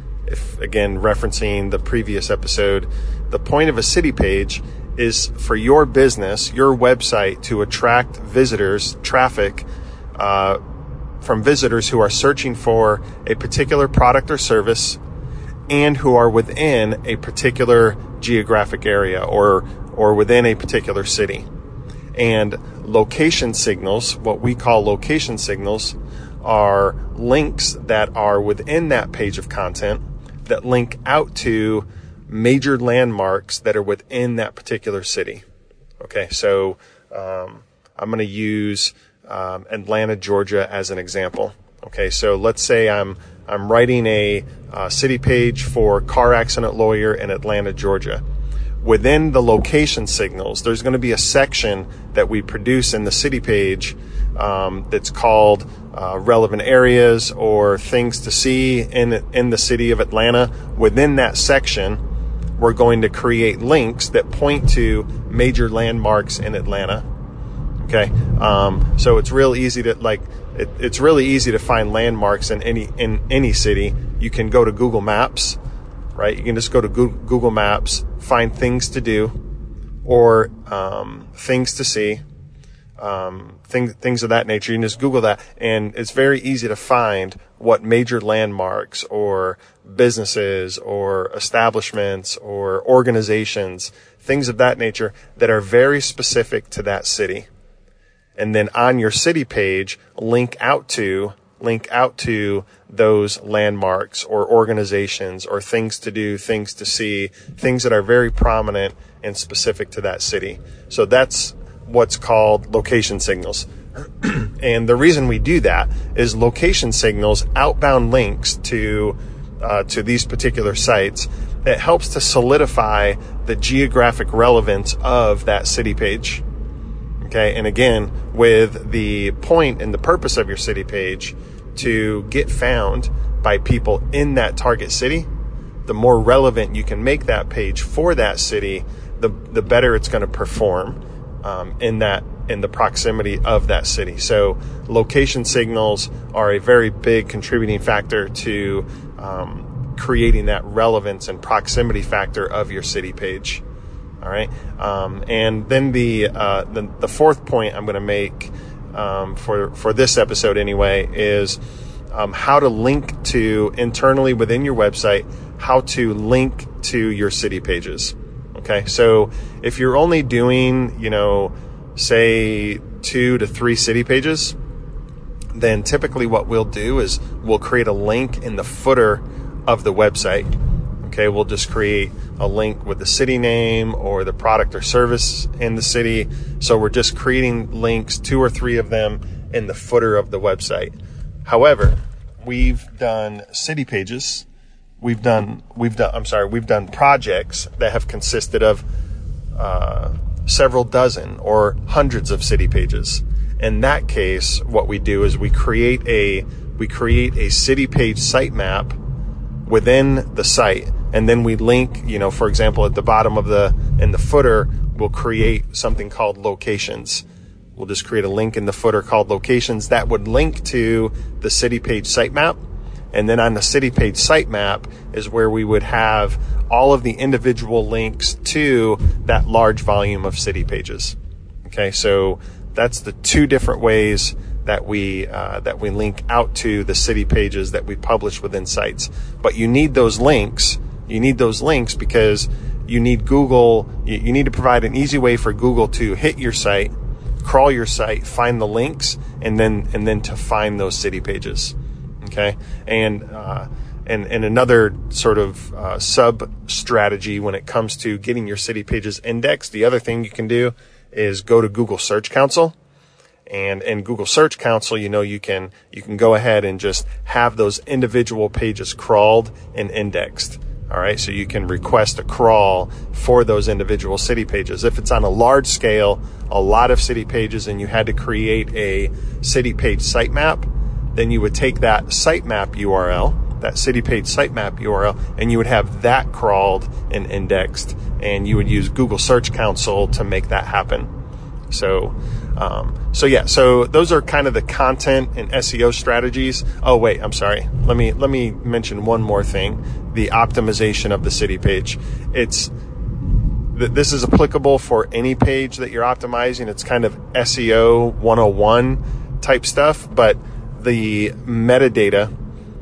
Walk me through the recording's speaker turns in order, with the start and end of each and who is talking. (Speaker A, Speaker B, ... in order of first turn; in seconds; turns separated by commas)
Speaker A: 0.3-10.6, Speaker A: 11.2-15.0, Speaker A: 15.7-21.5, Speaker A: 22.1-35.4, Speaker A: 36.0-48.2, Speaker A: 48.8-62.0, Speaker A: 62.6-67.0, Speaker A: 67.8-75.6, Speaker A: 76.1-79.3, Speaker A: 80.0-82.2, Speaker A: 83.0-97.5, Speaker A: 98.4-113.7, Speaker A: 114.2-126.4, Speaker A: 127.2-135.3, Speaker A: 135.8-153.6, Speaker A: 154.2-161.6, Speaker A: 162.1-174.5, Speaker A: 175.5-180.5, Speaker A: 181.0-190.9, Speaker A: 191.4-194.4, Speaker A: 195.0-198.8, Speaker A: 199.5-209.0, Speaker A: 209.7-217.2, Speaker A: 217.8-222.6, Speaker A: 223.1-262.7, Speaker A: 263.5-291.1, Speaker A: 291.7-302.7, Speaker A: 303.7-312.3